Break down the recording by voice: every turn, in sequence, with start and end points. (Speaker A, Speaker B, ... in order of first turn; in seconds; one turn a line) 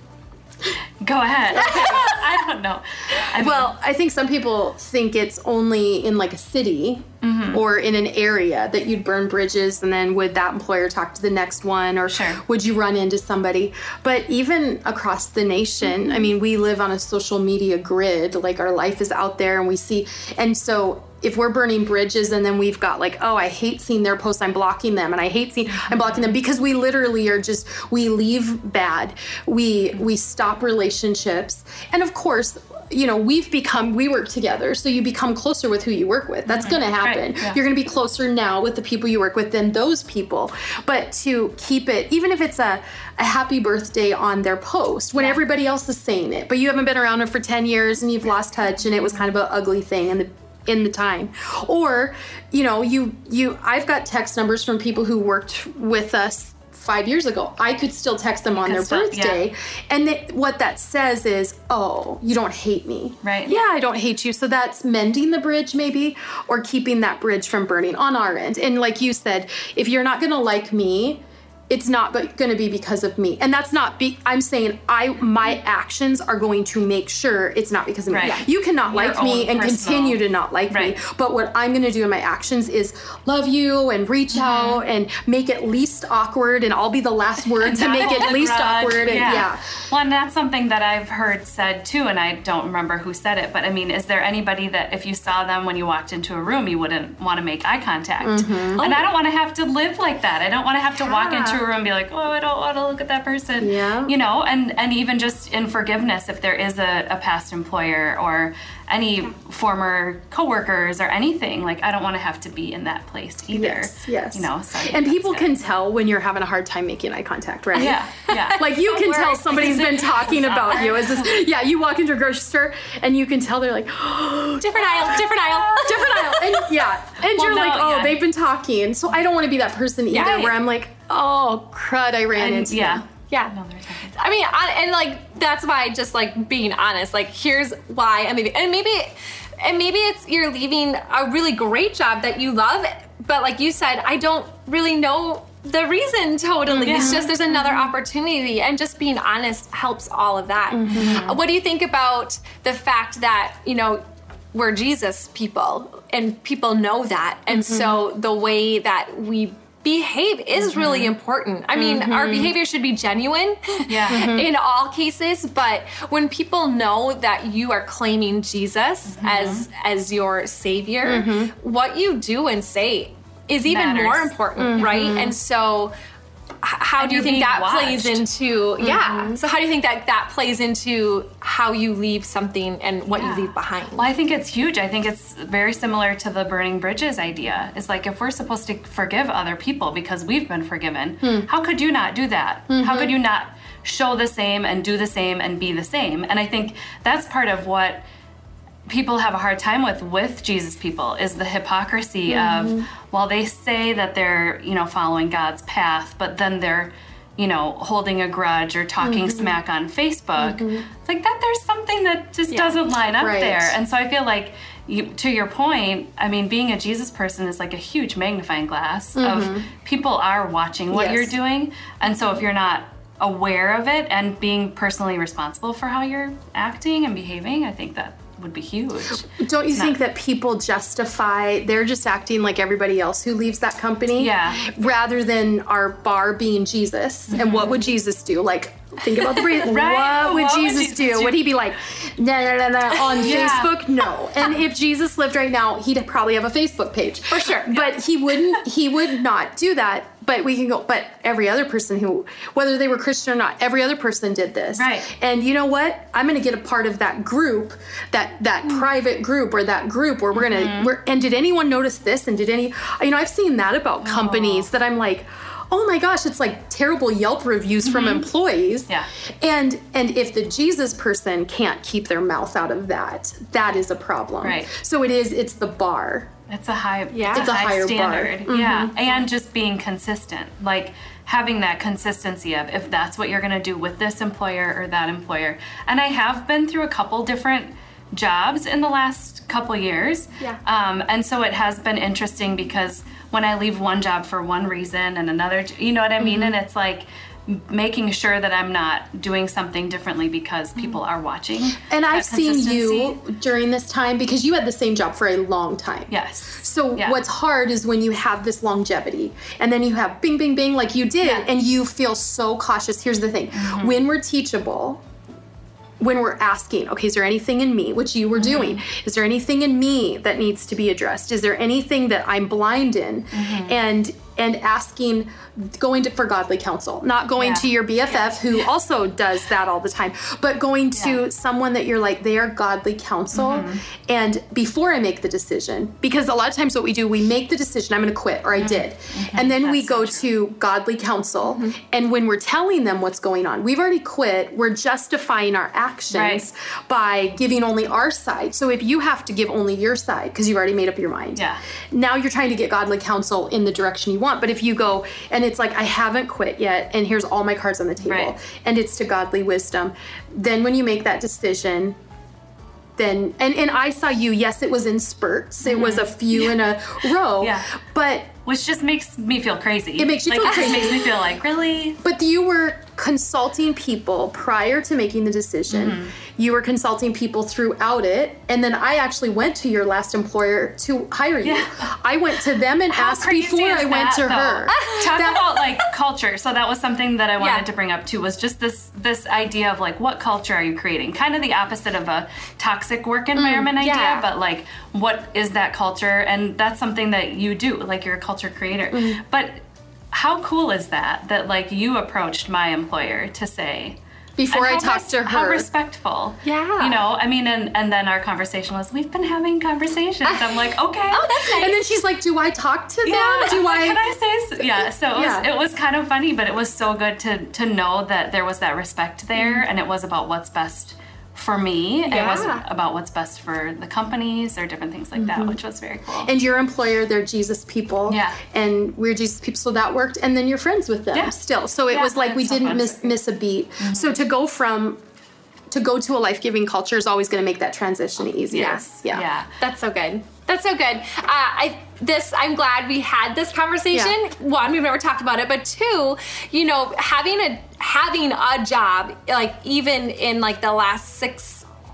Speaker A: 1.0-3.7
Speaker B: 1.5-2.1
Speaker C: 1.5-2.2
Speaker B: 3.3-89.6
Speaker A: 7.2-7.6
Speaker A: 12.1-12.4
Speaker A: 25.7-26.3
Speaker A: 36.5-37.6
Speaker A: 58.6-59.4
Speaker A: 63.2-63.6
Speaker A: 78.1-80.2
Speaker A: 84.3-84.8
Speaker A: 87.6-115.7
Speaker B: 98.2-99.0
Speaker B: 101.2-101.5
Speaker B: 103.6-104.1
Speaker B: 113.5-133.0
Speaker A: 117.7-118.6
Speaker C: 118.3-121.1
Speaker A: 119.5-121.4
Speaker C: 124.6-126.7
Speaker A: 125.6-126.2
Speaker A: 127.2-128.2
Speaker C: 130.1-130.5
Speaker A: 130.1-130.6
Speaker A: 132.3-134.1
Speaker C: 133.3-133.6
Speaker C: 134.1-154.0
Speaker B: 146.7-147.8
Speaker A: 146.8-147.3
Speaker B: 150.7-151.4
Speaker C: 154.5-175.9
Speaker B: 157.5-158.0
Speaker A: 160.6-161.1
Speaker B: 161.8-162.5
Speaker A: 163.9-164.3
Speaker B: 164.1-164.5
Speaker A: 169.1-169.7
Speaker B: 171.0-171.5
Speaker A: 173.7-174.9
Speaker B: 174.6-175.3
Speaker C: 176.6-184.1
Speaker A: 177.0-178.2
Speaker B: 178.8-179.4
Speaker A: 183.1-198.1
Speaker B: 191.2-191.5
Speaker B: 192.7-193.1
Speaker A: 198.9-229.9
Speaker B: 202.3-202.8
Speaker B: 209.0-209.5
Speaker B: 210.4-210.8
Speaker C: 212.5-212.8
Speaker B: 213.2-213.8
Speaker B: 219.2-219.7
Speaker B: 220.9-221.3
Speaker B: 229.2-268.9
Speaker A: 234.2-234.7
Speaker A: 237.3-237.8
Speaker A: 239.3-241.4
Speaker A: 243.2-243.8
Speaker C: 247.3-247.7
Speaker A: 254.8-255.1
Speaker A: 260.3-260.9
Speaker A: 264.0-264.7
Speaker A: 267.8-268.3
Speaker B: 269.4-276.3
Speaker A: 274.4-274.7
Speaker A: 276.5-303.2
Speaker C: 277.1-277.5
Speaker B: 277.3-278.9
Speaker B: 296.2-296.5
Speaker B: 301.8-315.0
Speaker A: 306.1-307.2
Speaker A: 313.5-314.1
Speaker B: 316.0-362.0
Speaker A: 318.4-318.8
Speaker A: 323.3-323.7
Speaker A: 327.4-328.2
Speaker A: 333.3-333.8
Speaker A: 338.6-340.3
Speaker A: 346.1-346.4
Speaker A: 351.3-351.6
Speaker A: 358.0-358.3
Speaker B: 363.0-368.3
Speaker A: 365.6-366.6
Speaker A: 367.4-367.6
Speaker A: 368.4-372.0
Speaker B: 370.0-371.1
Speaker B: 372.0-385.5
Speaker A: 375.7-376.1
Speaker A: 381.4-381.9
Speaker A: 382.9-404.0
Speaker C: 384.7-385.6
Speaker C: 387.4-387.6
Speaker B: 393.4-393.7
Speaker C: 393.8-394.2
Speaker B: 398.9-399.2
Speaker B: 404.4-405.7
Speaker A: 404.5-411.4
Speaker C: 406.4-407.0
Speaker C: 410.2-411.8
Speaker B: 411.6-414.0
Speaker A: 413.0-426.3
Speaker B: 414.6-415.5
Speaker C: 422.1-422.6
Speaker B: 425.2-425.5
Speaker B: 426.2-435.0
Speaker A: 428.1-428.4
Speaker A: 431.9-433.1
Speaker C: 432.0-432.8
Speaker A: 433.8-434.1
Speaker B: 435.7-439.3
Speaker A: 438.5-439.5
Speaker C: 438.5-438.9
Speaker C: 439.6-451.7